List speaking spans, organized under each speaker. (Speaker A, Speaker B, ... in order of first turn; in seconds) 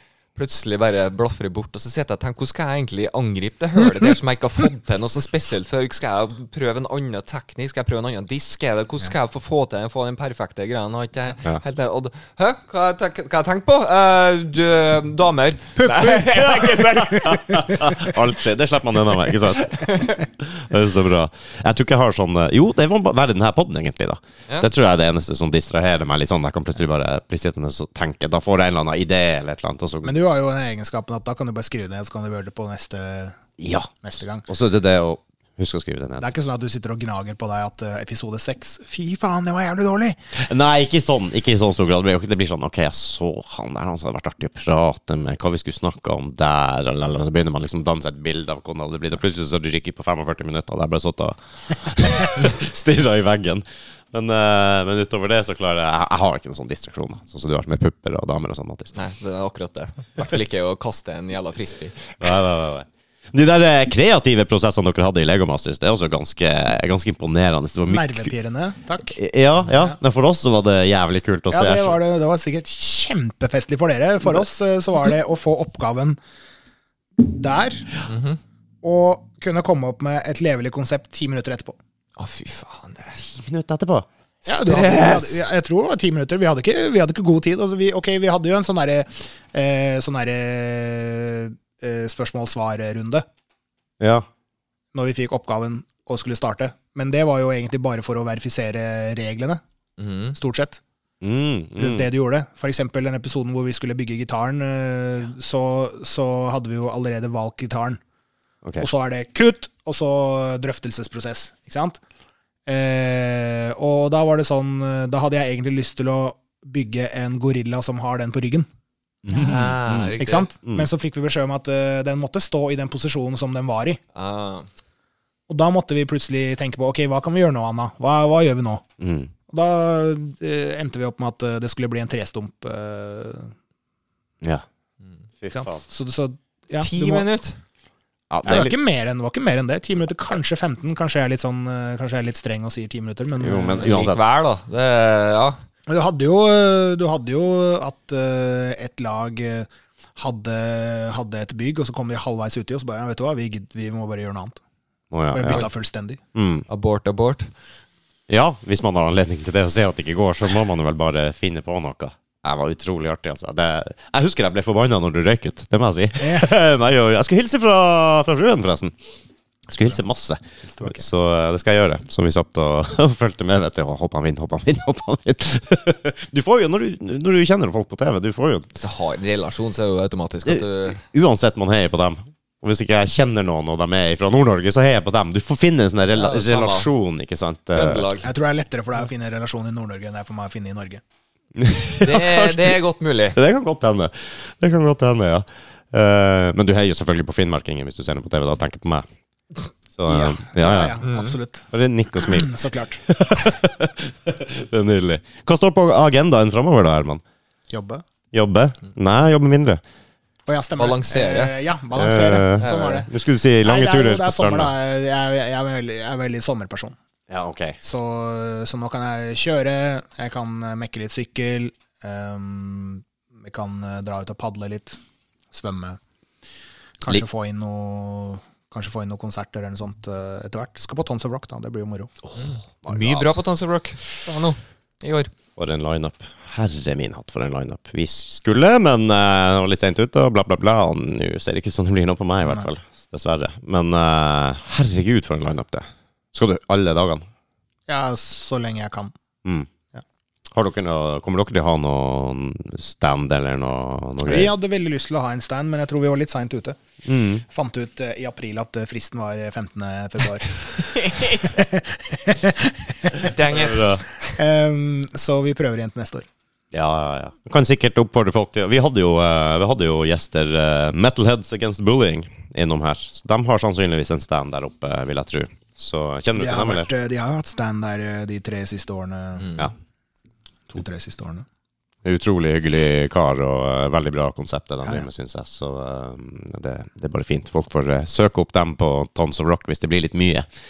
Speaker A: 0.3-17.3, 19.8-20.1, 58.9-62.2, 78.1-78.4, 82.2-83.3, 84.5-85.4, 100.0-100.3, 119.3-120.5, 124.1-124.7, 136.8-137.6, 143.8-145.6, 156.7-157.5, 178.8-181.0, 186.1-186.9, 187.7-188.3, 192.0-193.4, 201.0-201.3, 210.8-211.6, 212.6-213.0, 232.4-235.3, 260.8-261.6, 263.2-264.0
Speaker B: 15.8-18.1, 30.0-33.4, 34.0-34.5, 36.2-40.2, 67.9-69.2, 71.5-76.2, 77.2-77.9, 78.8-81.8, 84.5-93.2, 94.9-99.6, 100.3-100.8, 101.8-108.0, 108.8-112.0, 112.7-118.7, 120.2-124.0, 125.5-128.8, 129.5-133.5, 135.5-137.3, 138.4-144.0, 145.9-154.6, 155.3-156.2, 166.2-166.5, 170.7-171.0, 188.2-191.0, 200.1-203.0, 207.7-208.0, 210.5-213.1, 213.6-216.9, 217.8-225.0, 225.5-226.0, 227.0-232.1, 242.4-242.7, 247.9-249.1, 254.2-256.8, 257.5-263.3, 264.2-266.2, 276.4-279.6, 280.7-281.4
Speaker C: 16.3-30.1, 33.6-33.9, 34.5-36.2, 40.4-58.9, 62.2-68.3, 69.1-72.0, 83.3-84.1, 94.0-94.2, 101.2-102.1, 119.2-120.8, 129.0-129.3, 135.4-135.8, 138.3-138.8, 143.4-144.2, 155.1-155.7, 156.3-156.7, 158.3-168.9, 169.7-178.7, 180.4-188.1, 191.6-192.8, 193.3-199.0, 199.9-201.0, 201.7-207.2, 208.3-209.8, 211.9-214.7, 217.3-217.8, 232.4-233.3, 235.6-247.2, 249.4-249.7, 250.5-254.5, 257.0-257.4, 263.5-264.0, 266.7-276.9, 282.0-290.5